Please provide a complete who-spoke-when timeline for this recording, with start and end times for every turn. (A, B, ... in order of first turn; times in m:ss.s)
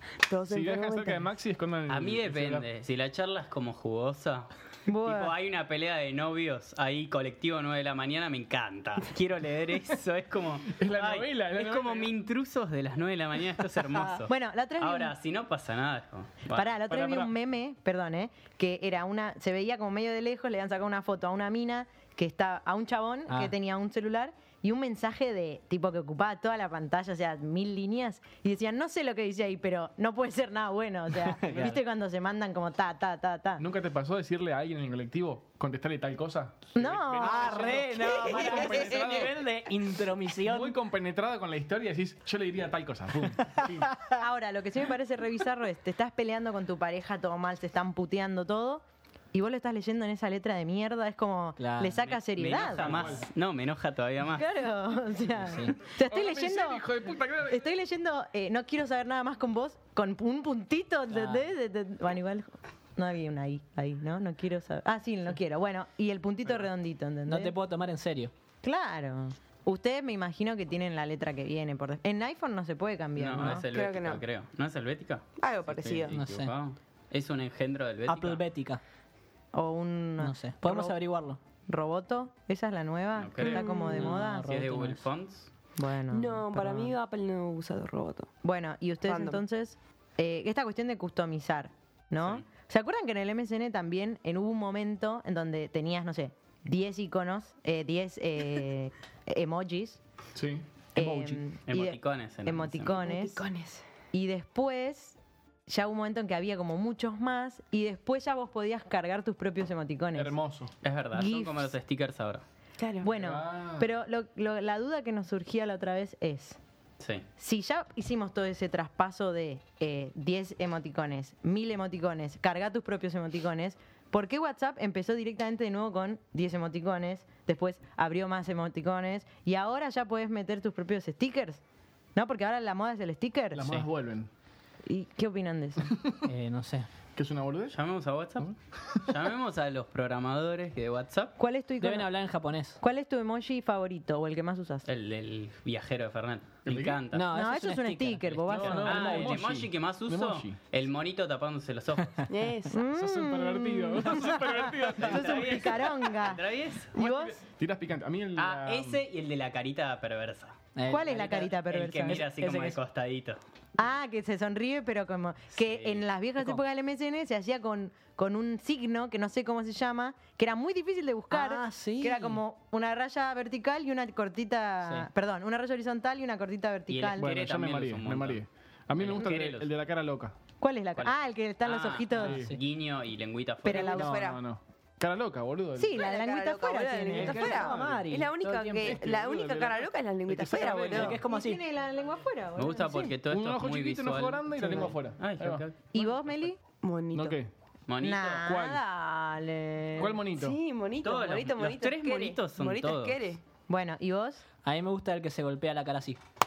0:00.2-0:01.3 A
0:00.5-0:02.6 B
0:01.9-0:16.7 C
0:04.9-0:05.3 D
0:10.7-0:12.1 B
0:14.3-0:15.1 D
0:16.5-0:33.6 D
0:16.9-0:17.3 B
0:23.3-0:23.5 E
0:31.2-0:31.8 E
0:33.6-0:39.4 B
0:36.8-0:39.0 D
0:37.2-0:40.8 E
0:40.4-0:43.9 B
0:43.5-0:44.1 E
0:44.2-0:53.0 D
0:51.6-0:52.2 E
0:52.4-0:54.5 C
0:52.6-0:53.3 B
0:54.4-0:56.9 D
0:55.4-0:55.8 E
0:56.0-0:57.7 B
0:57.5-1:07.6 D
1:01.1-1:01.5 E
1:07.3-1:08.3 E
1:08.6-1:13.6 D
1:13.2-1:18.4 C
1:13.7-1:14.2 A
1:15.4-1:16.2 A
1:16.1-1:16.5 E
1:18.1-1:18.8 E
1:19.5-1:21.0 D
1:20.2-1:21.4 E
1:21.7-1:24.5 D
1:23.2-1:23.6 C
1:23.4-1:24.1 A
1:23.9-1:25.0 E
1:24.2-1:25.5 C
1:25.8-1:26.4 D
1:26.1-1:28.3 A
1:26.5-1:26.9 E
1:28.4-1:40.0 D
1:29.0-1:29.4 A
1:40.4-1:40.6 B
1:41.0-1:43.4 D
1:41.0-1:41.4 E
1:41.7-1:42.9 C
1:42.9-1:43.9 A
1:44.1-1:45.2 D
1:45.7-1:50.4 D
1:50.2-1:50.7 B
1:50.8-1:52.4 C
1:51.1-1:51.7 D
1:52.8-1:53.1 A
1:53.0-1:56.6 D
1:53.1-1:53.9 B
1:57.0-1:57.3 C
1:57.4-2:11.6 D
2:12.1-2:13.6 D
2:13.6-2:14.3 B
2:14.9-2:15.9 D
2:16.3-2:16.9 E
2:17.2-2:17.8 B
2:17.7-2:21.4 C
2:18.4-2:19.0 B
2:21.4-2:22.1 D
2:21.8-2:22.8 E
2:22.8-2:24.9 D
2:24.9-2:27.3 C
2:26.7-2:27.0 B
2:27.1-2:29.4 E
2:27.3-2:29.3 D
2:28.5-2:30.6 B
2:28.6-2:32.3 C
2:32.3-2:32.8 A
2:32.7-2:36.4 D
2:32.8-2:36.1 B
2:35.0-2:36.9 C
2:36.9-2:37.4 D
2:36.9-2:39.0 B
2:38.4-2:40.6 C
2:40.8-2:42.8 E
2:40.9-2:42.2 D
2:41.7-2:43.4 C
2:43.8-2:57.3 D
2:45.6-2:46.0 C
2:51.3-2:52.4 E
2:54.8-2:55.1 E
2:56.9-2:58.4 C
2:57.2-3:00.4 B
2:59.0-2:59.7 C
3:00.6-3:02.4 D
3:01.0-3:04.0 C
3:02.2-3:02.6 B
3:03.6-3:04.2 D
3:03.7-3:04.4 A
3:03.9-3:06.0 B
3:05.8-3:07.6 D
3:06.0-3:11.2 A
3:07.2-3:09.0 E
3:07.2-3:11.2 B
3:10.5-3:11.6 E
3:10.9-3:13.1 D
3:12.6-3:15.8 C
3:13.3-3:16.3 B
3:15.9-3:16.6 D
3:16.8-3:17.4 A
3:17.1-3:17.5 B
3:17.9-3:18.4 C
3:18.0-3:20.2 D
3:18.4-3:18.8 B
3:20.0-3:20.6 B
3:20.3-3:23.4 A
3:21.0-3:23.3 C
3:23.7-3:24.4 D
3:24.6-3:26.2 E